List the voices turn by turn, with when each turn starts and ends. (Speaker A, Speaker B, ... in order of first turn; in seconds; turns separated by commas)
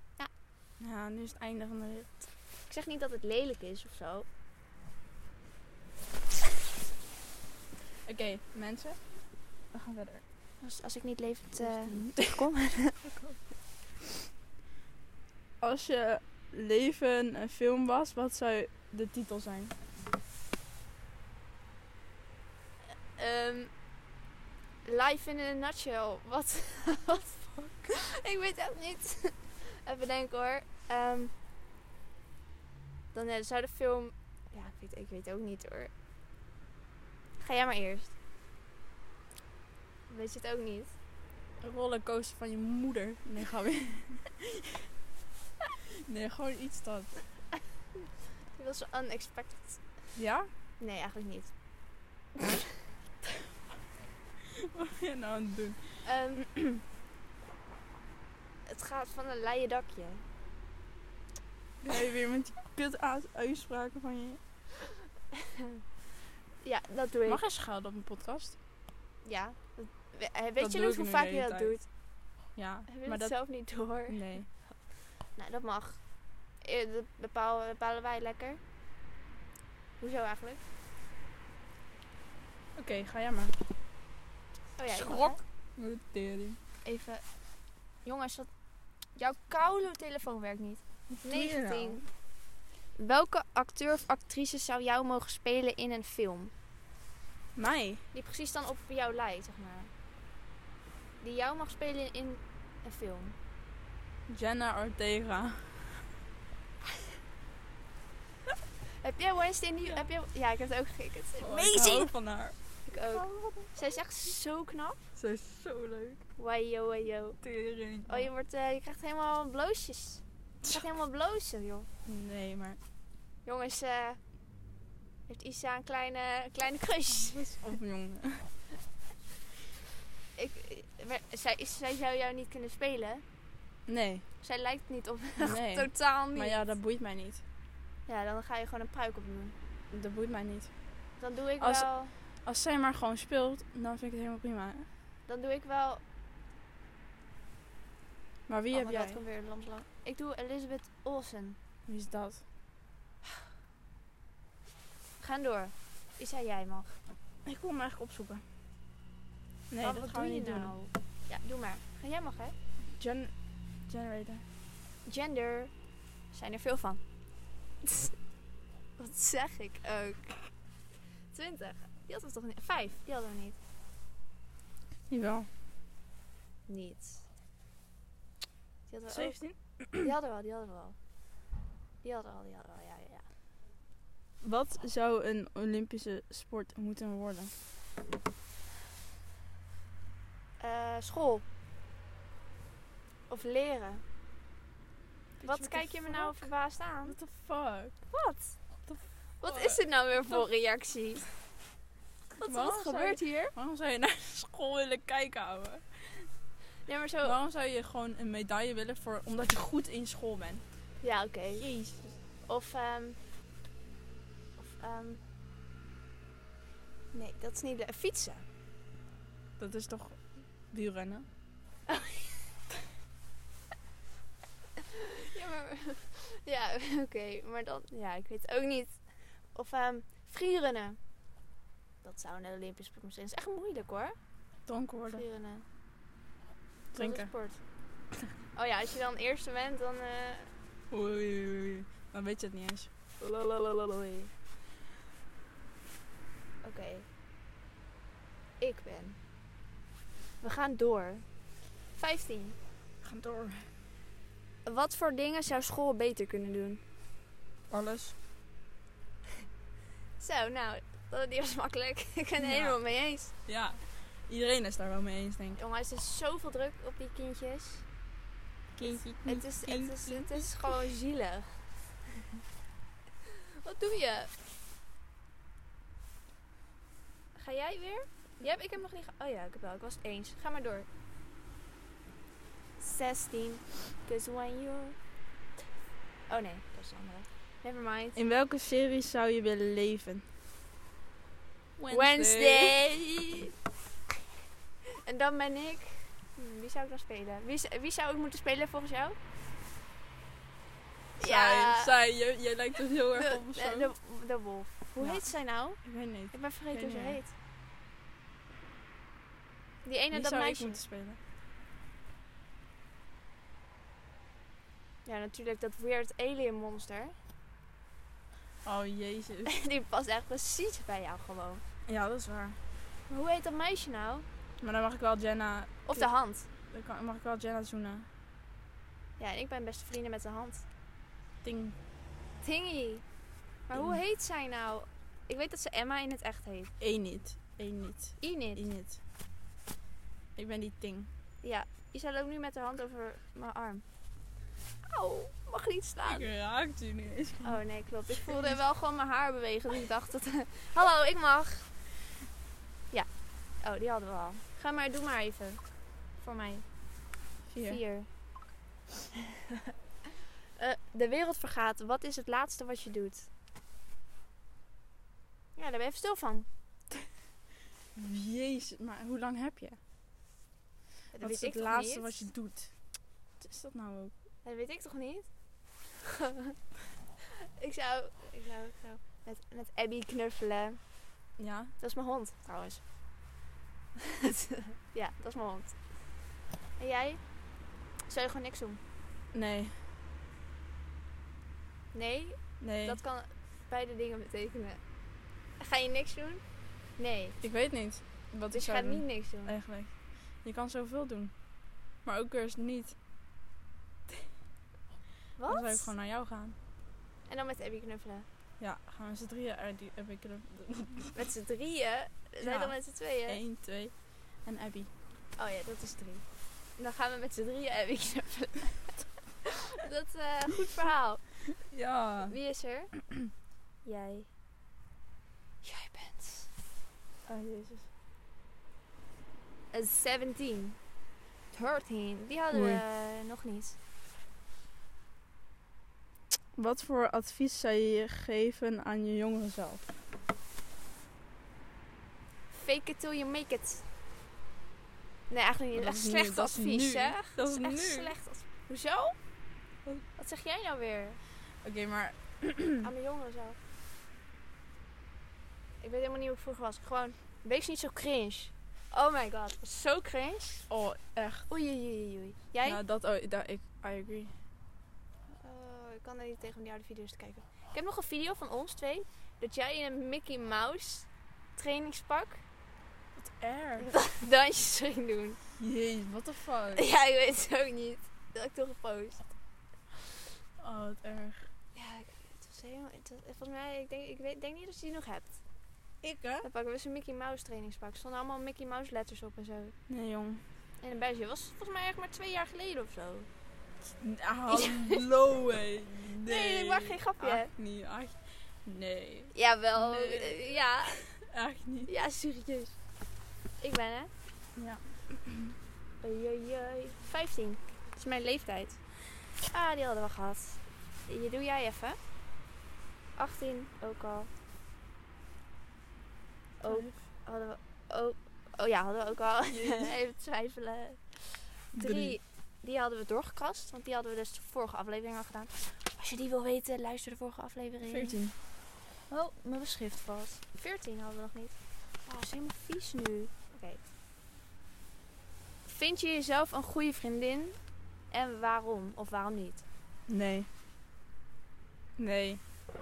Speaker A: 0.8-2.1, Speaker B: 2.7-4.2, Speaker A: 8.1-9.0, Speaker A: 9.7-10.2, Speaker B: 10.6-13.3, Speaker A: 11.6-12.4, Speaker A: 15.6-19.7, Speaker B: 23.1-23.7, Speaker B: 24.8-31.3, Speaker A: 27.5-27.9, Speaker B: 33.1-35.9, Speaker B: 37.4-38.1, Speaker B: 40.1-40.9, Speaker A: 41.6-44.9, Speaker A: 46.0-47.2, Speaker B: 48.5-49.8, Speaker A: 50.1-50.5, Speaker B: 50.8-51.5, Speaker A: 54.4-56.8, Speaker B: 56.0-56.4, Speaker B: 58.6-60.2, Speaker A: 61.8-64.4, Speaker B: 65.3-65.8, Speaker B: 66.6-67.4, Speaker A: 67.2-68.5, Speaker B: 69.2-71.8, Speaker A: 70.6-71.7, Speaker A: 72.5-73.3, Speaker B: 72.9-74.2, Speaker A: 74.1-74.5, Speaker B: 75.3-76.0, Speaker B: 76.6-78.6, Speaker B: 80.0-80.6, Speaker A: 82.8-83.5, Speaker B: 84.8-85.4, Speaker A: 84.9-86.6, Speaker B: 86.8-87.2, Speaker B: 88.0-88.5, Speaker B: 89.2-92.0, Speaker A: 91.1-92.0, Speaker B: 93.0-96.5, Speaker A: 97.5-98.0, Speaker B: 98.1-99.9, Speaker B: 101.2-103.3, Speaker A: 104.3-106.1, Speaker B: 109.0-112.1, Speaker A: 111.4-113.7, Speaker B: 112.8-115.0, Speaker A: 115.2-116.2, Speaker B: 116.4-117.4, Speaker A: 117.4-118.3, Speaker B: 118.0-121.9, Speaker A: 122.0-122.8, Speaker B: 123.4-124.2, Speaker B: 125.3-127.6, Speaker A: 127.1-128.4, Speaker B: 130.4-133.2, Speaker A: 133.9-134.2, Speaker B: 134.4-136.7, Speaker A: 135.4-137.4, Speaker B: 138.1-139.5, Speaker A: 139.9-140.7, Speaker B: 141.2-142.1, Speaker A: 141.6-141.9, Speaker A: 142.4-144.9, Speaker B: 145.3-146.0, Speaker A: 148.5-149.2, Speaker B: 148.7-151.6, Speaker A: 151.9-152.4, Speaker B: 155.2-157.0, Speaker A: 157.4-158.4, Speaker A: 159.7-160.7, Speaker B: 159.8-162.5, Speaker A: 162.8-163.3, Speaker A: 163.9-164.4, Speaker B: 165.0-165.7, Speaker B: 166.3-167.0, Speaker B: 167.8-168.1, Speaker B: 169.0-170.4, Speaker B: 171.3-173.6, Speaker A: 175.1-175.5, Speaker B: 176.7-177.2, Speaker B: 178.9-179.4, Speaker A: 179.1-180.1, Speaker B: 180.0-180.9, Speaker B: 182.0-183.2, Speaker A: 184.4-187.5, Speaker B: 190.6-191.4, Speaker B: 193.3-194.0, Speaker A: 195.4-196.5, Speaker B: 195.4-197.2, Speaker A: 197.1-197.9, Speaker B: 198.1-198.5, Speaker A: 198.8-200.4, Speaker B: 199.4-201.2, Speaker B: 202.3-203.5, Speaker A: 202.4-206.3, Speaker B: 206.9-207.4, Speaker A: 207.2-210.6, Speaker B: 211.0-211.7, Speaker A: 211.6-212.1, Speaker B: 212.5-213.2, Speaker B: 214.6-215.2, Speaker B: 217.1-218.4, Speaker A: 219.6-220.2, Speaker A: 220.7-221.2, Speaker B: 221.9-222.4, Speaker B: 224.9-229.0, Speaker B: 229.5-231.0, Speaker B: 232.0-234.2, Speaker A: 234.7-235.2, Speaker B: 235.1-235.6, Speaker A: 236.9-237.3, Speaker B: 236.9-237.6, Speaker B: 238.5-240.5, Speaker A: 240.9-242.9, Speaker B: 243.2-244.3, Speaker B: 246.6-247.1, Speaker B: 248.6-249.2, Speaker B: 250.4-251.2, Speaker B: 251.9-252.6, Speaker A: 253.0-253.7, Speaker B: 254.7-256.8, Speaker A: 257.7-258.1, Speaker B: 260.2-263.3, Speaker A: 262.4-262.8, Speaker A: 263.4-265.6, Speaker B: 265.6-267.8, Speaker A: 268.8-270.7, Speaker B: 268.8-271.6, Speaker B: 273.6-274.3, Speaker B: 277.4-280.9, Speaker B: 282.8-284.9, Speaker B: 286.3-288.2, Speaker A: 288.1-290.2, Speaker A: 291.8-292.8, Speaker B: 291.9-293.5, Speaker B: 295.0-299.2, Speaker A: 301.2-303.9, Speaker B: 301.2-301.9, Speaker B: 303.1-305.8, Speaker A: 305.0-305.2, Speaker A: 305.8-307.2, Speaker B: 306.3-307.3, Speaker B: 309.8-310.8, Speaker A: 310.1-311.2, Speaker B: 315.0-317.1, Speaker A: 318.6-319.5, Speaker B: 319.4-321.6, Speaker A: 321.9-322.6, Speaker B: 323.1-324.2, Speaker A: 324.6-326.1, Speaker B: 325.9-326.5, Speaker A: 326.7-328.1, Speaker B: 329.2-330.6, Speaker A: 331.4-331.8, Speaker B: 332.4-333.0, Speaker B: 333.7-336.7, Speaker A: 333.7-334.0, Speaker A: 336.8-339.0, Speaker B: 338.2-338.6, Speaker A: 340.4-341.1, Speaker B: 341.4-343.8, Speaker B: 344.8-346.3, Speaker A: 346.1-348.6, Speaker B: 347.4-351.7, Speaker B: 353.6-355.6, Speaker B: 356.2-356.6, Speaker A: 357.5-357.8, Speaker B: 357.6-358.1, Speaker B: 359.2-359.7, Speaker B: 360.6-363.3, Speaker B: 365.6-366.5, Speaker A: 367.9-369.8, Speaker B: 371.1-372.2, Speaker A: 371.2-372.7, Speaker A: 373.4-374.1, Speaker B: 374.4-375.3, Speaker B: 376.0-376.6, Speaker B: 377.3-380.8, Speaker A: 381.4-381.7, Speaker B: 381.8-382.8, Speaker B: 384.0-385.7, Speaker B: 386.8-387.2, Speaker B: 388.1-388.8, Speaker A: 389.3-389.8, Speaker B: 391.9-394.8, Speaker A: 392.6-393.0, Speaker B: 395.6-396.4, Speaker B: 397.0-397.4, Speaker A: 397.4-399.9, Speaker B: 398.5-399.5, Speaker A: 400.4-401.3, Speaker A: 402.0-402.9, Speaker B: 405.4-405.9, Speaker A: 405.5-406.6, Speaker B: 407.3-408.3, Speaker A: 408.6-411.2, Speaker B: 411.1-413.4, Speaker A: 412.4-413.9, Speaker A: 414.4-414.9, Speaker B: 415.4-416.2, Speaker B: 416.8-421.2, Speaker A: 421.7-422.4, Speaker B: 422.3-422.9, Speaker B: 423.8-424.3, Speaker B: 425.6-426.5, Speaker A: 427.2-427.9, Speaker B: 429.7-430.8, Speaker B: 431.5-433.8, Speaker A: 432.5-432.8, Speaker A: 436.5-439.9, Speaker B: 442.5-443.8, Speaker B: 445.3-449.1, Speaker A: 445.7-448.1, Speaker B: 450.1-451.2, Speaker A: 451.6-452.9, Speaker B: 452.8-453.6, Speaker B: 455.8-460.7, Speaker A: 460.7-461.5, Speaker B: 461.5-462.8, Speaker A: 462.6-464.3, Speaker B: 465.3-472.4, Speaker A: 473.2-473.9, Speaker B: 473.8-475.4, Speaker A: 475.6-476.9, Speaker B: 476.7-479.2, Speaker A: 480.6-481.5, Speaker B: 481.7-485.4, Speaker A: 486.0-486.5, Speaker B: 486.4-489.7, Speaker A: 489.9-490.4, Speaker B: 490.8-493.3, Speaker A: 494.0-501.9, Speaker B: 494.5-495.0, Speaker B: 496.2-497.5, Speaker B: 499.3-501.0, Speaker B: 501.9-502.8, Speaker B: 503.6-504.1, Speaker A: 504.6-505.5, Speaker B: 506.0-508.8, Speaker B: 509.4-512.0, Speaker B: 513.2-514.3, Speaker B: 516.6-528.2, Speaker A: 516.6-517.0, Speaker A: 519.5-519.9, Speaker A: 521.7-522.2, Speaker A: 527.8-528.3, Speaker B: 529.1-531.5, Speaker B: 532.0-533.8, Speaker B: 535.6-537.5, Speaker B: 538.1-539.6, Speaker A: 540.1-540.5, Speaker A: 542.0-542.4